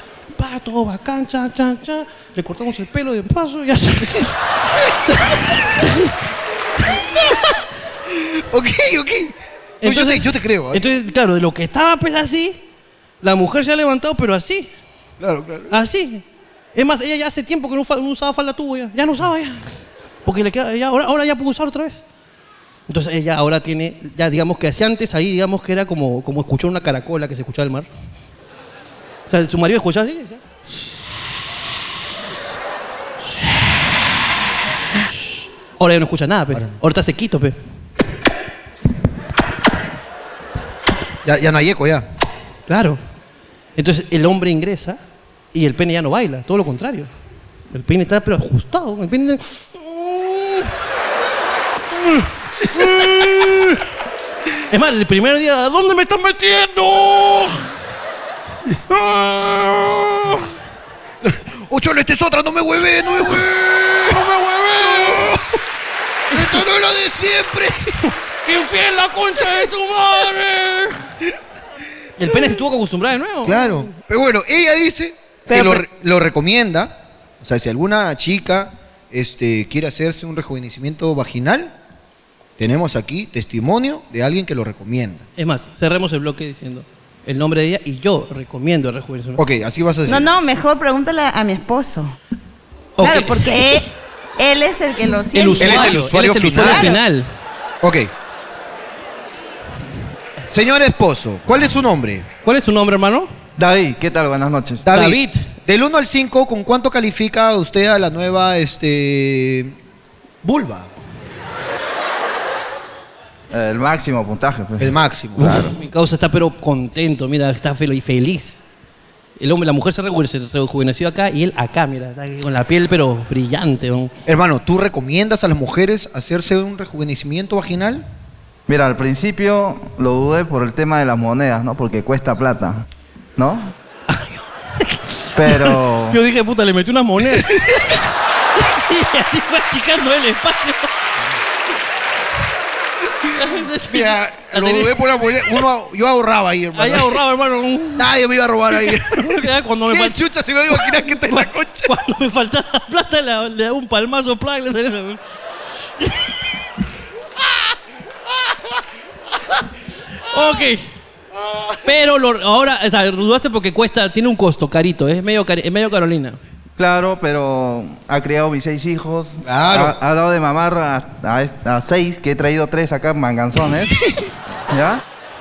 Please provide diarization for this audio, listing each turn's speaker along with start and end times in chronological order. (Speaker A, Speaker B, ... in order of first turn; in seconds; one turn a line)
Speaker A: 0.3-6.2
Speaker B: 8.1-10.8
Speaker A: 9.8-12.6
Speaker A: 13.2-14.7
Speaker B: 15.2-15.8
Speaker A: 15.7-16.2
Speaker A: 16.7-19.7
Speaker A: 20.2-22.0
Speaker A: 22.9-27.9
Speaker A: 29.3-30.4
Speaker A: 33.2-33.9
Speaker A: 34.9-37.5
Speaker B: 41.2-42.1
Speaker A: 42.7-43.0
Speaker A: 43.8-45.0
Speaker A: 45.5-47.1
Speaker A: 47.7-50.7
Speaker A: 51.9-53.8
Speaker B: 52.7-53.6
Speaker A: 54.7-57.6
Speaker A: 58.9-60.5
Speaker B: 61.2-65.4
Speaker A: 64.1-65.3
Speaker B: 66.3-68.0
Speaker A: 66.4-66.6
Speaker A: 68.4-71.0
Speaker B: 69.4-69.7
Speaker A: 72.2-73.9
Speaker B: 73.4-81.7
Speaker A: 75.5-75.8
Speaker B: 82.6-85.2
Speaker A: 85.4-89.4
Speaker B: 89.4-90.3
Speaker C: 90.0-92.2
Speaker A: 93.0-93.6
Speaker C: 93.0-96.0
Speaker A: 95.3-97.3
Speaker B: 95.6-96.9
Speaker C: 96.5-96.9
Speaker B: 97.8-98.1
Speaker B: 100.5-102.3
Speaker A: 102.4-103.3
Speaker D: 103.6-104.9
Speaker B: 104.8-109.8
Speaker A: 104.9-105.5
Speaker B: 110.4-110.9
Speaker D: 113.5-115.7
Speaker B: 114.8-115.7
Speaker A: 115.7-118.6
Speaker A: 119.4-124.1
Speaker B: 124.2-128.0
Speaker D: 128.7-132.8
Speaker D: 133.4-133.7
Speaker A: 134.1-137.9
Speaker D: 135.3-136.2
Speaker A: 138.6-140.9
Speaker A: 143.3-145.6
Speaker B: 143.8-147.2
Speaker A: 146.7-148.1
Speaker B: 147.9-149.3
Speaker A: 148.7-155.2
Speaker B: 149.9-151.9
Speaker A: 160.2-160.8
Speaker B: 161.4-161.7
Speaker A: 161.8-166.4
Speaker D: 166.8-174.0
Speaker B: 169.4-170.0
Speaker D: 174.7-175.0